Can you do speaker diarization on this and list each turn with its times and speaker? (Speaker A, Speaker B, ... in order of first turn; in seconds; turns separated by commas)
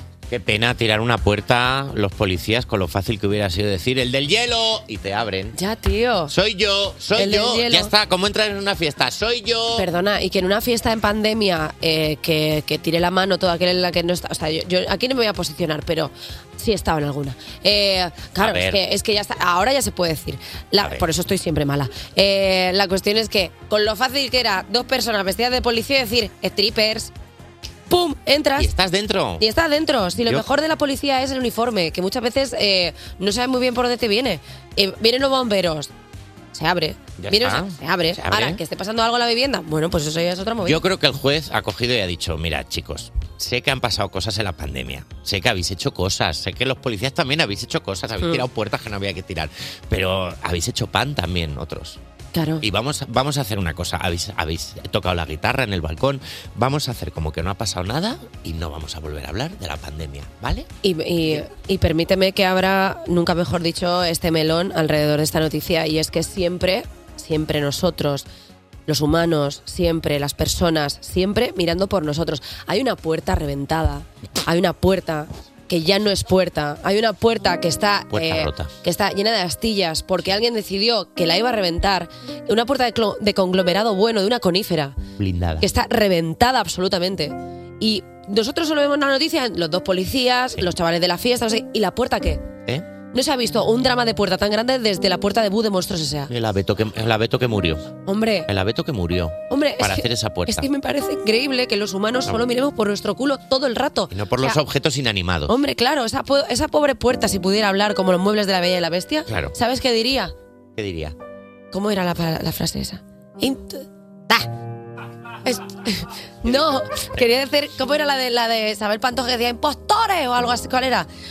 Speaker A: 0.3-5.5, Speaker B: 5.5-6.3, Speaker A: 6.3-9.8, Speaker B: 7.1-7.9, Speaker B: 9.8-27.1, Speaker A: 18.4-18.8, Speaker B: 27.9-28.7, Speaker A: 28.6-29.4, Speaker B: 29.4-35.9, Speaker B: 36.5-40.8, Speaker A: 37.2-38.6, Speaker A: 40.6-52.0, Speaker B: 52.3-52.6, Speaker A: 52.6-60.7, Speaker B: 60.8-68.3, Speaker B: 68.9-85.0, Speaker A: 78.1-78.7, Speaker A: 85.2-85.7, Speaker B: 85.6-92.4, Speaker B: 93.1-96.3, Speaker A: 96.3-97.9, Speaker B: 98.0-98.5, Speaker A: 98.5-100.7, Speaker B: 99.5-104.6, Speaker A: 104.1-105.5, Speaker B: 105.5-110.3, Speaker A: 109.3-109.5, Speaker A: 110.8-111.1, Speaker B: 111.7-114.5, Speaker B: 115.4-121.1